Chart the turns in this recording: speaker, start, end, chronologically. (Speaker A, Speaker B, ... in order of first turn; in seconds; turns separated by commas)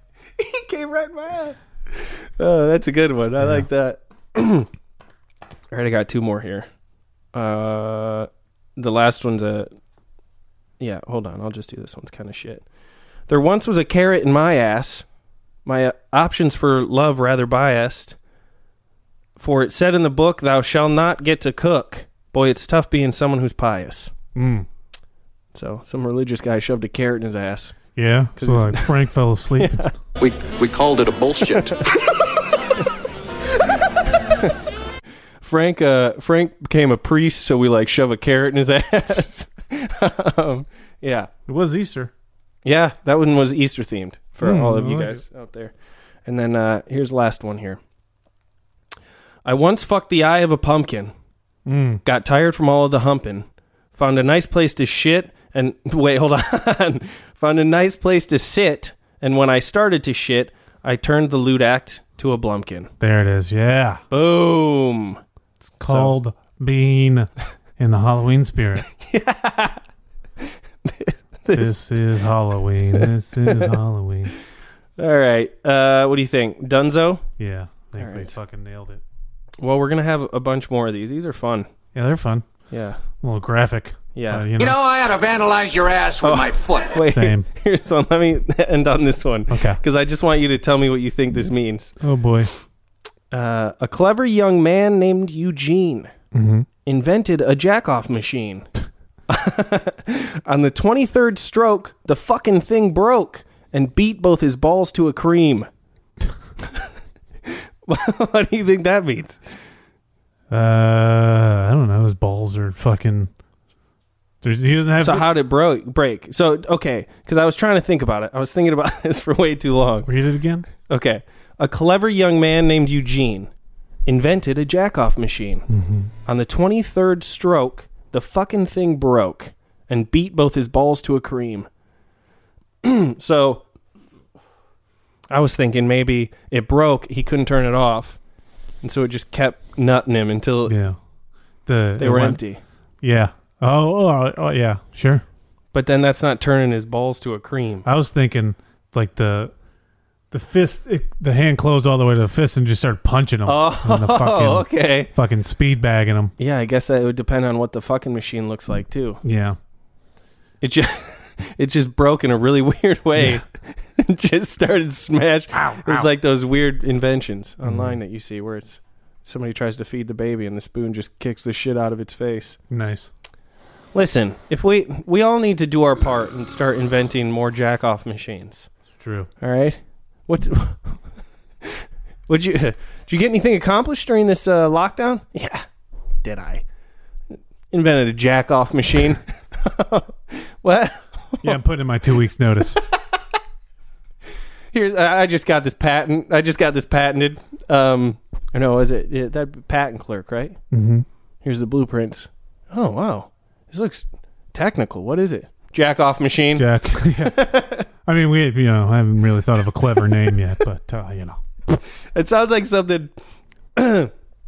Speaker A: 0.4-4.7, Speaker B: 3.4-3.7, Speaker A: 5.7-6.7, Speaker A: 7.3-9.7, Speaker A: 10.8-12.7, Speaker A: 13.3-15.1, Speaker A: 15.7-18.2, Speaker A: 19.4-24.1, Speaker B: 24.4-24.7, Speaker A: 25.5-27.8, Speaker B: 28.0-29.8, Speaker A: 28.4-29.9, Speaker C: 30.2-31.8, Speaker A: 35.4-41.3, Speaker B: 41.5-42.1, Speaker A: 42.6-45.7, Speaker B: 44.4-45.2, Speaker A: 46.3-47.8, Speaker A: 49.5-51.1, Speaker B: 51.7-52.0, Speaker A: 52.0-62.9, Speaker B: 63.0-64.0, Speaker A: 64.1-65.2, Speaker B: 65.7-68.9, Speaker A: 65.8-66.1, Speaker A: 69.0-69.8, Speaker A: 70.8-71.9, Speaker B: 71.5-74.3, Speaker A: 72.9-73.8, Speaker A: 75.0-77.2, Speaker B: 77.4-79.0, Speaker A: 78.0-78.3, Speaker A: 79.6-81.7, Speaker B: 81.9-82.5, Speaker A: 82.7-83.0, Speaker B: 83.2-84.8, Speaker A: 84.2-84.5, Speaker C: 84.6-87.0, Speaker A: 86.2-92.0, Speaker B: 87.0-87.5, Speaker B: 89.5-89.8, Speaker B: 92.0-92.5, Speaker A: 93.3-96.1, Speaker B: 96.3-96.7, Speaker A: 96.9-98.7, Speaker A: 99.3-105.7, Speaker A: 107.9-109.4, Speaker B: 110.5-113.3, Speaker B: 114.4-115.3, Speaker A: 115.0-120.1, Speaker B: 120.1-120.7, Speaker A: 120.9-123.5, Speaker A: 124.1-125.7, Speaker B: 125.7-126.1, Speaker A: 126.3-131.7, Speaker A: 132.8-133.6, Speaker A: 135.3-138.2, Speaker A: 138.8-140.8, Speaker B: 140.7-141.0, Speaker B: 141.7-142.4, Speaker A: 142.0-142.6, Speaker B: 143.0-145.2, Speaker A: 145.7-147.9, Speaker B: 147.8-149.5, Speaker B: 150.3-156.3, Speaker A: 153.5-155.1, Speaker A: 156.4-159.2, Speaker B: 159.2-159.6, Speaker A: 160.6-172.6, Speaker B: 163.2-163.4, Speaker B: 165.5-166.1, Speaker B: 167.6-168.0, Speaker B: 172.7-173.1, Speaker A: 173.9-178.7, Speaker B: 179.0-179.3, Speaker A: 179.4-181.0, Speaker A: 182.3-185.7, Speaker A: 186.2-186.6, Speaker A: 187.7-191.6, Speaker B: 191.4-192.8, Speaker A: 194.7-200.6, Speaker B: 200.7-201.1, Speaker A: 201.4-207.9, Speaker B: 206.6-207.5, Speaker B: 208.1-211.8, Speaker A: 212.2-213.1, Speaker A: 213.8-214.1